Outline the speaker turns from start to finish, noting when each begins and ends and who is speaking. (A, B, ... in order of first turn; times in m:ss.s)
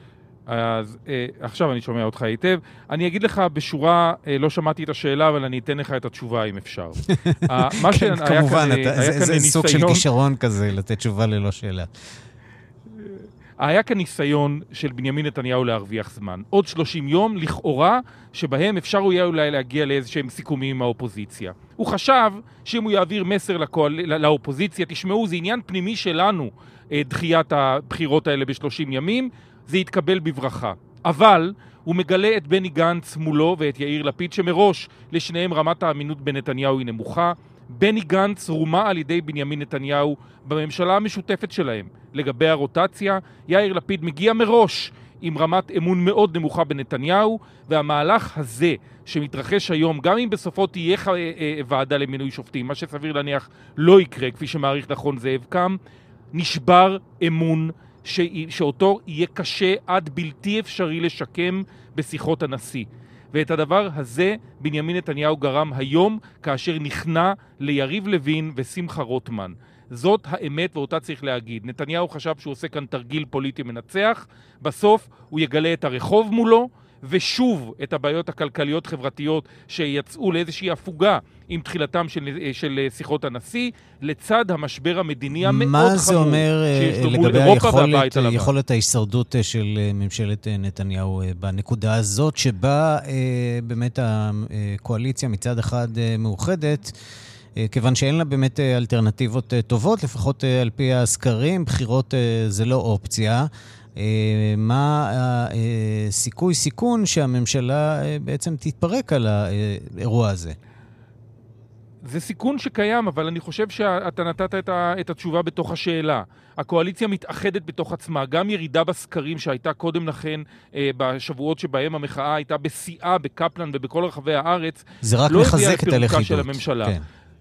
0:00.5-0:10.0 A
0:07.1-0:11.9 B
0:13.0-0:55.8 A
0:56.3-1:28.5 A
1:25.4-1:36.9 B
1:37.6-1:50.6 B
1:52.0-2:07.0 A
2:05.0-2:07.0 B